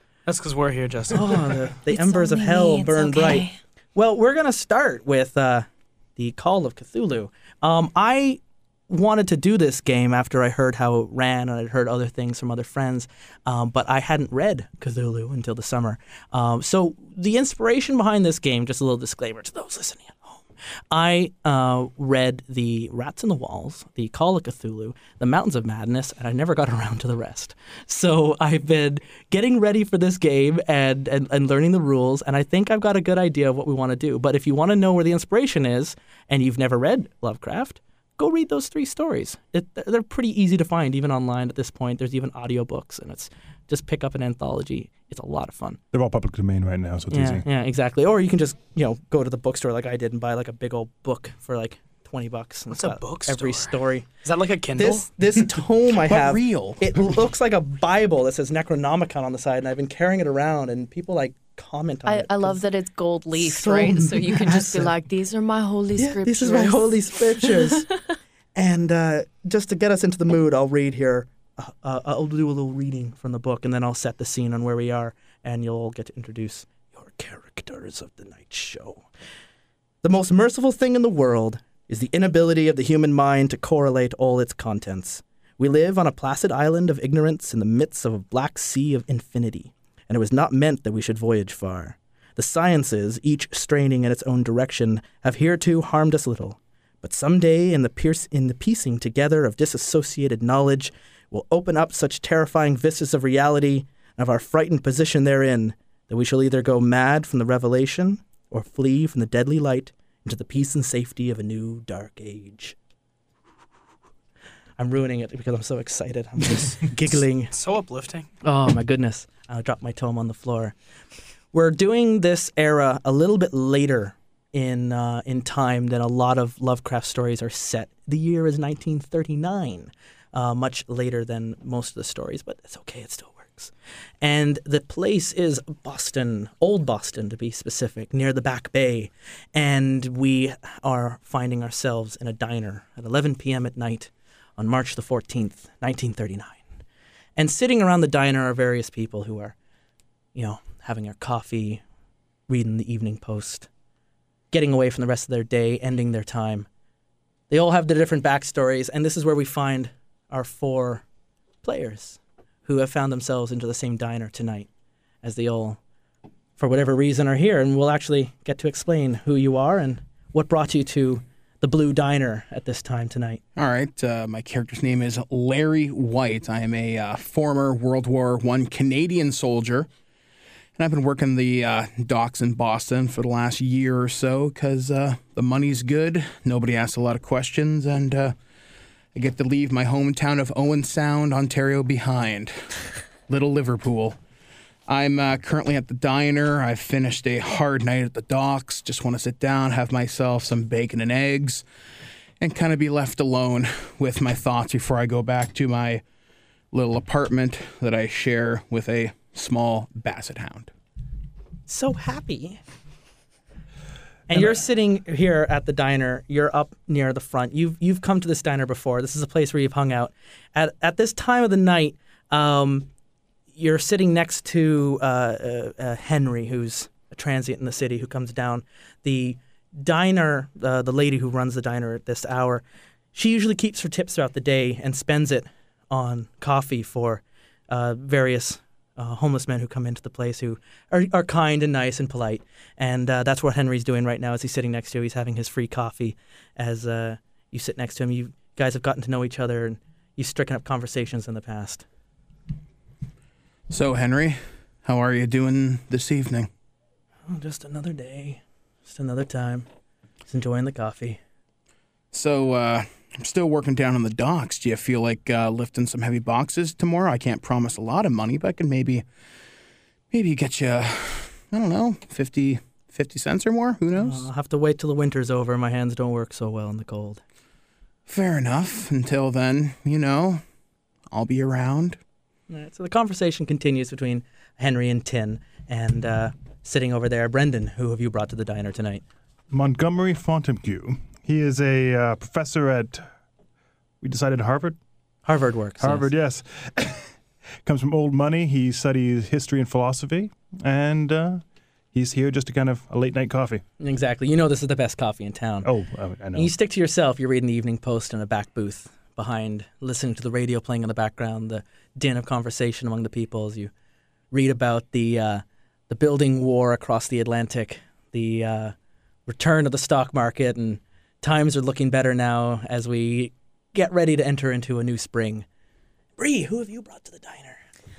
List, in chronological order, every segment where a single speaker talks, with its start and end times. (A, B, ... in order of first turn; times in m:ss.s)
0:00.2-0:01.6 A
0:01.1-0:45.8 B
0:01.9-0:03.6 C
0:45.9-0:47.4 D
0:47.1-0:54.1 B
0:52.7-0:55.1 A
0:54.8-1:02.6 B
0:55.9-0:56.8 E
1:02.0-1:07.9 C
1:03.3-1:04.9 B
1:06.0-1:07.9 B
1:08.5-1:19.0 B
1:20.0-1:52.7 B
1:54.8-1:57.5 B
1:57.5-1:58.3 A
1:58.4-2:00.7 B
2:01.5-2:26.6 B
2:27.4-2:29.5 B
2:30.3-2:31.8 B
2:32.5-2:33.7 B
2:34.5-2:36.7 B
2:37.5-2:41.0 B
2:41.6-2:44.7 B
2:45.2-2:45.8 B
2:46.6-2:53.4 B
2:53.6-2:59.9 E
3:00.8-3:08.3 E
3:09.1-3:12.6 E
3:13.3-3:14.2 E
3:14.9-3:21.6 E
3:22.4-3:26.0 E
3:26.7-3:30.7 E
3:31.7-3:32.6 B
3:34.3-3:42.9 B
3:43.5-4:11.8 B
4:13.7-4:16.5 E
4:17.3-4:19.7 B
4:20.3-4:21.2 B
4:22.1-4:29.0 E
4:30.1-4:34.2 E
4:34.0-4:37.2 B
4:38.1-4:40.4 E
4:41.1-4:42.0 E
4:42.5-4:49.0 B
4:49.5-4:53.0 D
4:54.0-4:54.8 D
4:55.2-4:56.1 B
4:55.8-4:57.1 D
4:57.6-5:03.6 D
5:03.8-5:05.7 B
5:05.6-5:06.5 D
5:06.3-5:13.7 B
5:14.3-5:18.7 B
5:19.3-5:25.4 B
5:26.2-5:27.6 B